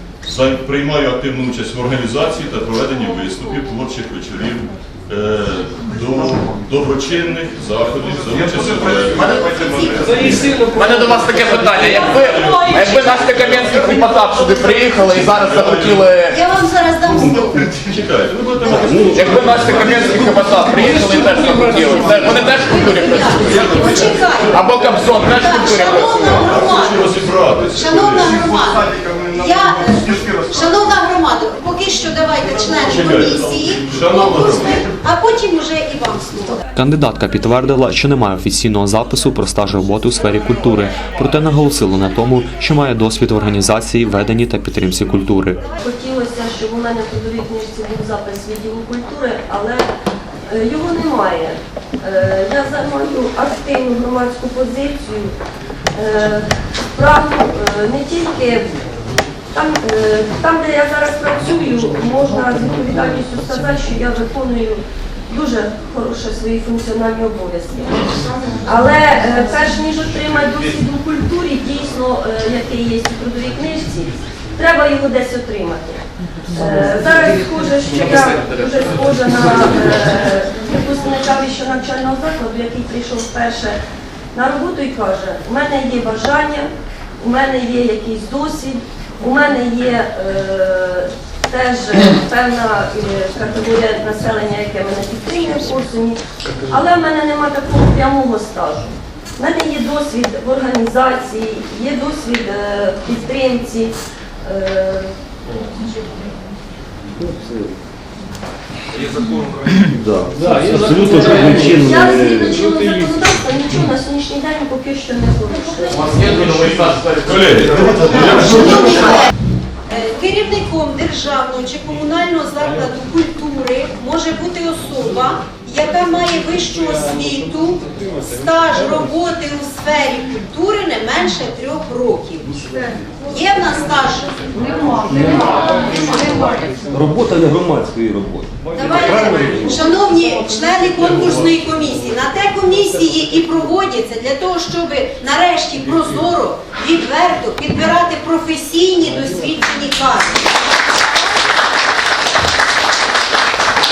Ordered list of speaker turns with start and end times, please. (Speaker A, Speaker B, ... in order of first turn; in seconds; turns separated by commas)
Speaker A: 0.2-9.4, Speaker B: 9.0-10.7, Speaker C: 9.3-9.5, Speaker C: 10.2-16.4, Speaker A: 11.6-13.9, Speaker A: 15.1-16.1, Speaker B: 16.2-17.7, Speaker A: 17.1-20.9, Speaker C: 18.6-26.6, Speaker D: 18.8-21.9, Speaker B: 21.8-27.1, Speaker A: 23.7-24.6, Speaker A: 26.3-28.5, Speaker B: 27.7-36.6, Speaker A: 32.8-34.9, Speaker E: 36.7-45.6, Speaker F: 45.8-49.9, Speaker F: 50.5-55.3, Speaker F: 55.9-58.7, Speaker F: 59.5-68.0, Speaker F: 68.6-83.8, Speaker F: 84.3-86.7, Speaker F: 87.2-103.9, Speaker F: 104.4-105.1, Speaker D: 107.2-107.7, Speaker D: 109.7-112.6, Speaker F: 111.6-116.3, Speaker C: 116.0-118.5, Speaker A: 116.6-119.2, Speaker B: 118.0-119.3, Speaker B: 119.9-132.6, Speaker B: 133.2-136.6, Speaker D: 136.9-139.6, Speaker B: 138.7-150.4